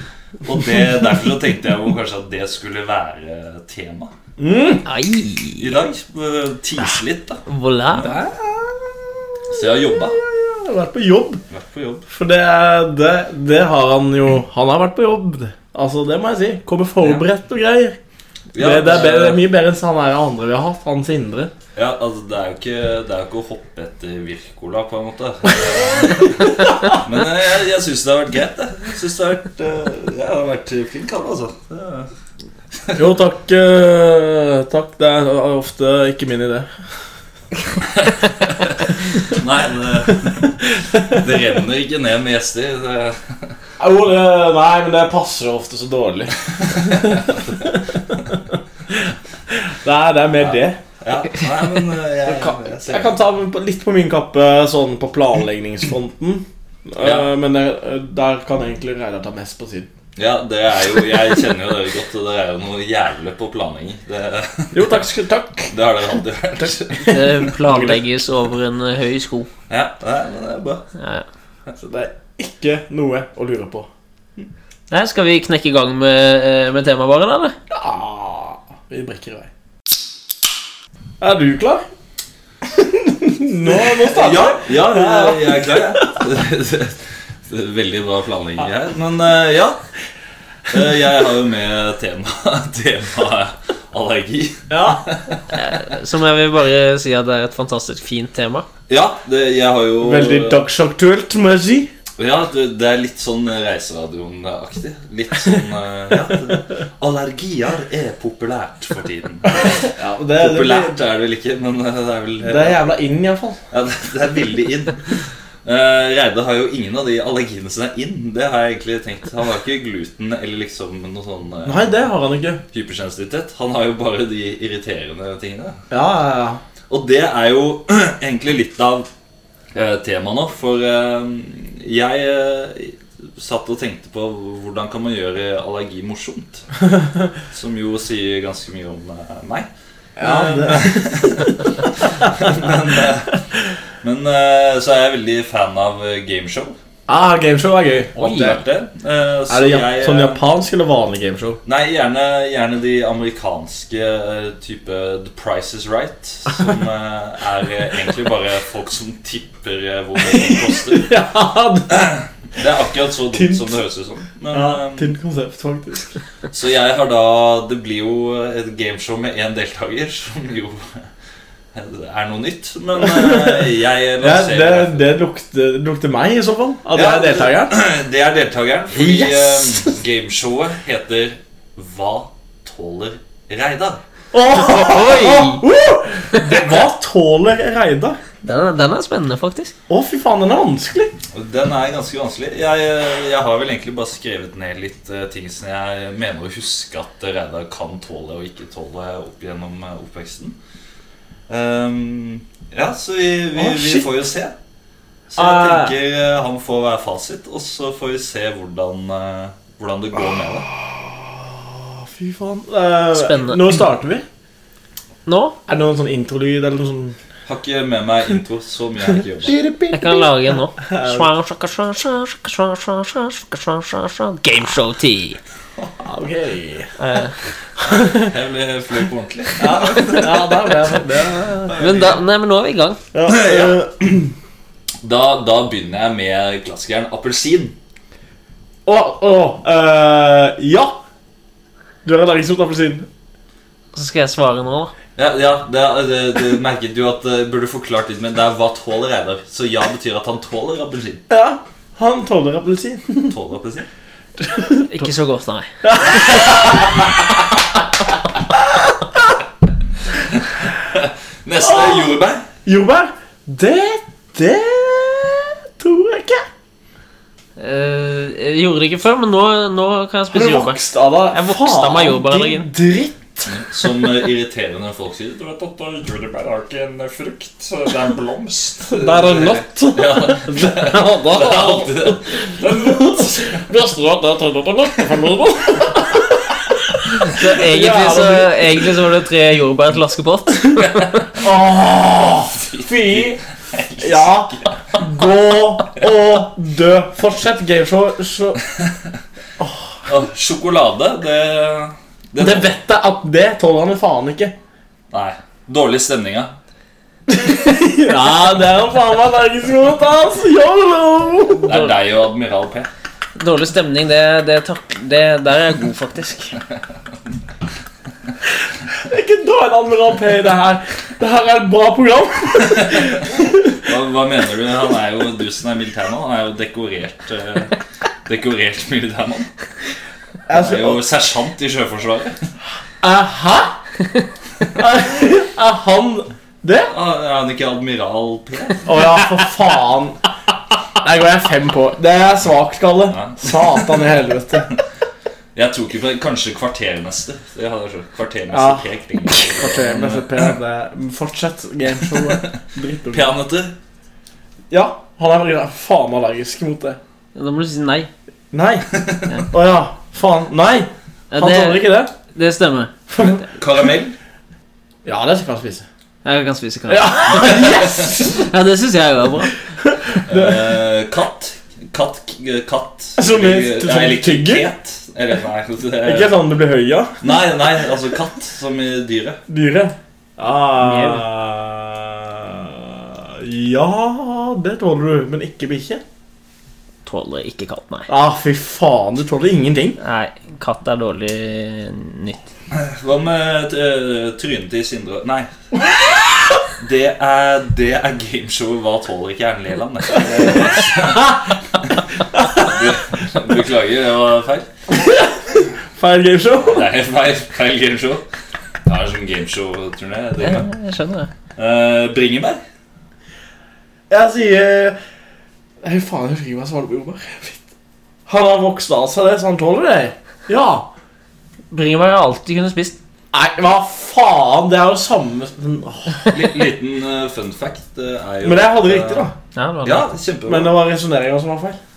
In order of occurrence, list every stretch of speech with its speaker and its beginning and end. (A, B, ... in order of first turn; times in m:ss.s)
0:00.4-0:04.1 A
0:04.4-0:04.8 B
0:04.8-0:05.7 C
0:05.6-0:08.3 A
0:07.4-0:08.2 C
0:08.0-0:11.4 B
0:09.5-0:10.2 A
0:11.5-0:12.0 A
0:12.1-0:18.0 B
0:18.5-0:19.4 A
0:18.6-0:21.5 B
0:21.7-0:32.1 A
0:32.9-0:36.7 B
0:37.9-0:43.4 A
0:40.6-0:41.3 B
0:43.8-0:48.3 B
0:46.8-0:47.8 A
0:48.9-0:50.8 B
0:50.4-0:53.1 A
0:52.3-0:59.9 B
0:57.0-0:57.3 A
1:00.2-1:05.0 A
1:04.7-1:05.7 B
1:05.7-1:07.4 A
1:06.6-1:08.0 B
1:07.0-1:09.5 C
1:09.7-1:10.9 A
1:11.0-1:11.2 C
1:11.8-1:13.9 B
1:14.9-1:17.5 C
1:17.7-1:19.5 B
1:21.2-1:21.8 B
1:22.6-1:26.2 B
1:23.8-1:29.8 A
1:30.7-1:35.4 A
1:34.7-1:35.0 B
1:35.5-1:38.6 C
1:38.9-1:40.6 A
1:40.0-1:41.9 B
1:42.2-1:52.8 A
1:49.6-1:51.0 B
1:52.4-1:53.6 B
1:53.7-2:02.0 A
2:01.6-2:02.6 B
2:02.7-2:05.8 A
2:05.9-2:06.6 B
2:06.9-2:09.1 A
2:09.7-2:16.7 A
2:17.5-2:19.7 A
2:20.2-2:22.3 B
2:20.2-2:23.5 A
2:24.0-2:26.7 A
2:27.1-2:28.6 B
2:28.2-2:30.4 A
2:29.5-2:31.6 B
2:31.6-2:41.1 A
2:40.2-2:42.0 B
2:41.9-2:45.1 A
2:43.3-2:43.7 B
2:44.5-2:46.1 B
2:46.5-2:51.0 A
2:51.7-2:55.1 A
2:53.0-2:57.8 B
2:56.9-3:04.0 A
2:58.9-3:00.0 B
3:04.3-3:08.2 B
3:04.5-3:05.6 C
3:08.4-3:09.7 C
3:09.9-3:11.1 B
3:11.3-3:20.6 A
3:21.5-3:24.5 A
3:23.5-3:24.1 B
3:25.3-3:30.7 A
3:25.4-3:25.9 B
3:30.6-3:34.2 B
3:33.1-3:33.8 C
3:35.2-3:35.6 C
3:35.7-3:37.2 B
3:37.4-3:39.6 A
3:39.4-3:41.3 B
3:39.9-3:45.4 C
3:46.0-3:46.9 B
3:47.0-3:47.3 C
3:47.8-3:48.3 B
3:47.9-3:50.9 A
3:49.6-3:51.8 B
3:51.6-3:52.2 A
3:51.8-3:53.0 C
3:53.1-3:54.3 B
3:53.2-3:53.8 A
3:55.0-3:57.8 A
3:58.8-4:01.0 B
4:02.0-4:03.1 B
4:03.9-4:04.9 C
4:05.2-4:11.2 A
4:11.3-4:13.3 B
4:13.3-4:13.9 A
4:14.4-4:15.0 B
4:14.9-4:15.7 C
4:15.8-4:17.2 B
4:18.5-4:19.4 B
4:20.3-4:22.5 A
4:21.6-4:22.1 B
4:22.6-4:26.5 B
4:27.6-4:30.8 C
4:30.3-4:33.5 B
4:31.3-4:32.7 C
4:33.4-4:43.6 A
4:38.9-4:48.9 B
4:47.2-4:51.3 C
4:51.4-4:53.4 B
4:52.5-4:55.0 A
4:54.0-4:58.6 B
4:59.6-5:00.0 B
5:00.0-5:02.7 A
5:02.4-5:04.5 B
5:05.1-5:06.5 A
5:07.3-5:11.9 B
5:11.6-5:12.9 A
5:13.4-5:16.6 C
5:18.9-5:23.8 B
5:22.8-5:29.5 A
5:30.5-5:31.0 B
5:30.5-5:32.5 A
5:33.0-5:33.8 B
5:34.7-5:36.9 B
5:36.9-5:39.1 A
5:38.8-5:40.2 B
5:41.0-5:44.7 B
5:43.1-5:44.0 A
5:45.5-5:50.5 A
5:48.5-5:53.3 B
5:52.1-5:52.6 A
5:53.1-5:53.7 A
5:54.7-5:57.0 B
5:57.3-5:58.1 C
5:58.5-5:58.9 B
5:59.0-5:59.3 A
5:59.4-6:02.1 B
6:01.3-6:03.0 C
6:03.1-6:03.4 B
6:03.2-6:04.2 A
6:05.0-6:05.8 B
6:06.2-6:09.5 C
6:06.9-6:08.5 B
6:07.4-6:08.2 A
6:09.8-6:10.7 B
6:10.2-6:16.3 A
6:13.2-6:14.7 B
6:16.0-6:17.3 B
6:17.2-6:19.4 A
6:19.5-6:26.0 B
6:20.8-6:21.2 C
6:27.0-6:28.1 C
6:28.1-6:30.0 B
6:30.0-6:32.5 C
6:32.7-6:35.5 A
6:36.8-6:44.7 A
6:44.9-6:46.9 B
6:46.6-6:48.2 A
6:48.8-6:50.7 A
6:50.4-6:51.3 C
6:51.6-6:52.6 A
6:54.1-6:55.0 B
6:55.8-6:57.6 B
6:58.3-7:00.9 B
7:01.7-7:03.0 C
7:03.3-7:06.4 B
7:06.3-7:09.3 A
7:08.4-7:09.3 B
7:09.5-7:10.1 C
7:09.8-7:10.7 A
7:10.4-7:11.8 B